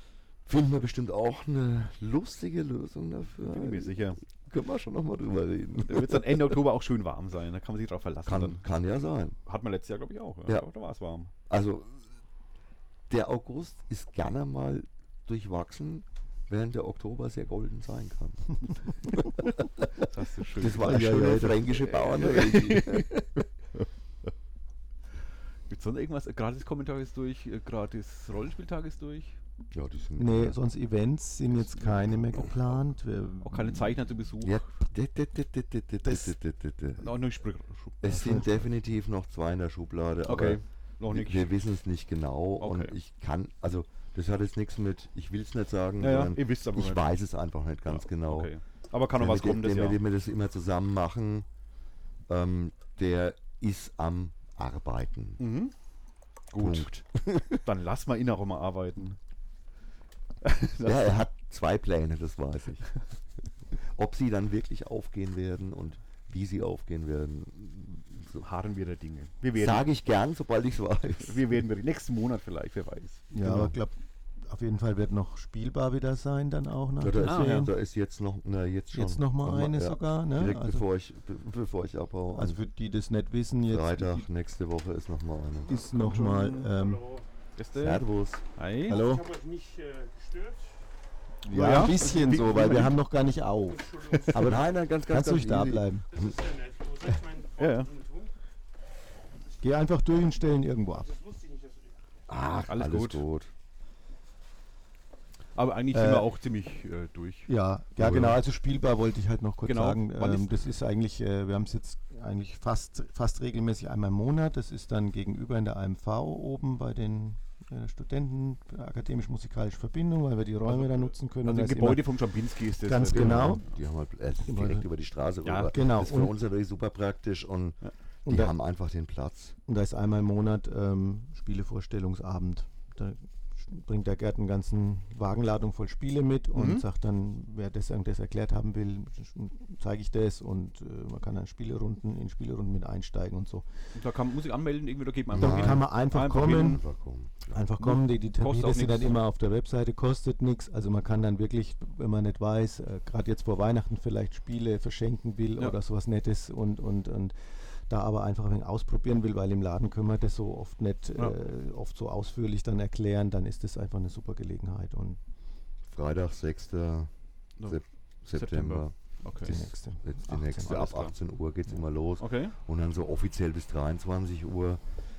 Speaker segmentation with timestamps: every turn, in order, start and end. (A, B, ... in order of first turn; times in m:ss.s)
0:00.4-0:06.6 A
0:03.3-0:04.2 B
0:05.8-0:08.6 B
0:08.3-0:09.4 A
0:09.5-0:11.3 B
0:11.5-0:12.0 A
0:13.1-0:23.2 A
0:20.0-0:23.2 B
0:20.8-0:21.8 C
0:25.7-0:29.4 B
0:29.7-0:30.6 A
0:30.2-0:34.0 C
0:31.5-0:32.5 B
0:33.4-0:34.7 B
0:34.4-0:37.2 A
0:36.0-0:36.3 C
0:37.0-0:38.7 B
0:38.0-0:48.5 A
0:38.1-0:38.4 C
0:40.2-0:41.5 B
0:42.6-0:43.0 B
0:46.0-0:47.1 B
0:47.9-0:50.0 B
0:49.2-0:51.5 A
0:52.3-0:55.4 A
0:55.4-0:55.8 B
0:56.5-0:59.2 B
0:56.6-0:57.6 A
1:00.4-1:01.2 B
1:00.8-1:03.1 A
1:03.8-1:08.4 A
1:08.3-1:09.9 B
1:09.6-1:11.4 A
1:11.2-1:13.3 B
1:13.3-1:17.7 C
1:13.4-1:13.7 A
1:17.0-1:22.6 A
1:17.2-1:17.7 B
1:18.9-1:20.8 C
1:22.3-1:24.3 C
1:23.7-1:25.9 A
1:25.6-1:27.1 C
1:25.9-1:26.7 B
1:26.2-1:27.3 D
1:27.6-1:29.0 B
1:27.7-1:28.5 A
1:28.9-1:29.3 C
1:28.9-1:30.9 D
1:31.5-1:32.9 A
1:31.5-1:36.1 C
1:31.5-1:32.9 B
1:33.8-1:34.5 D
1:34.4-1:36.5 A
1:36.1-1:38.3 D
1:37.6-1:37.9 B
1:39.6-1:41.2 C
1:41.1-1:41.9 D
1:42.3-1:43.5 A
1:42.7-1:43.2 B
1:45.6-1:48.4 B
1:45.9-1:46.3 C
1:47.5-2:03.7 C
1:49.6-1:50.7 B
2:00.7-2:03.6 B
2:03.1-2:09.6 A
2:04.4-2:04.9 C
2:05.4-2:05.7 B
2:05.7-2:06.3 C
2:08.3-2:08.5 C
2:09.7-2:23.9 C
2:16.5-2:16.8 B
2:23.9-2:26.8 B
2:25.3-2:25.9 A
2:25.4-2:26.8 C
2:26.6-2:27.6 A
2:27.5-2:45.2 C
2:27.8-2:29.2 B
2:45.9-2:54.8 A
2:47.6-2:49.8 B
2:49.4-2:50.8 C
2:50.6-2:52.6 B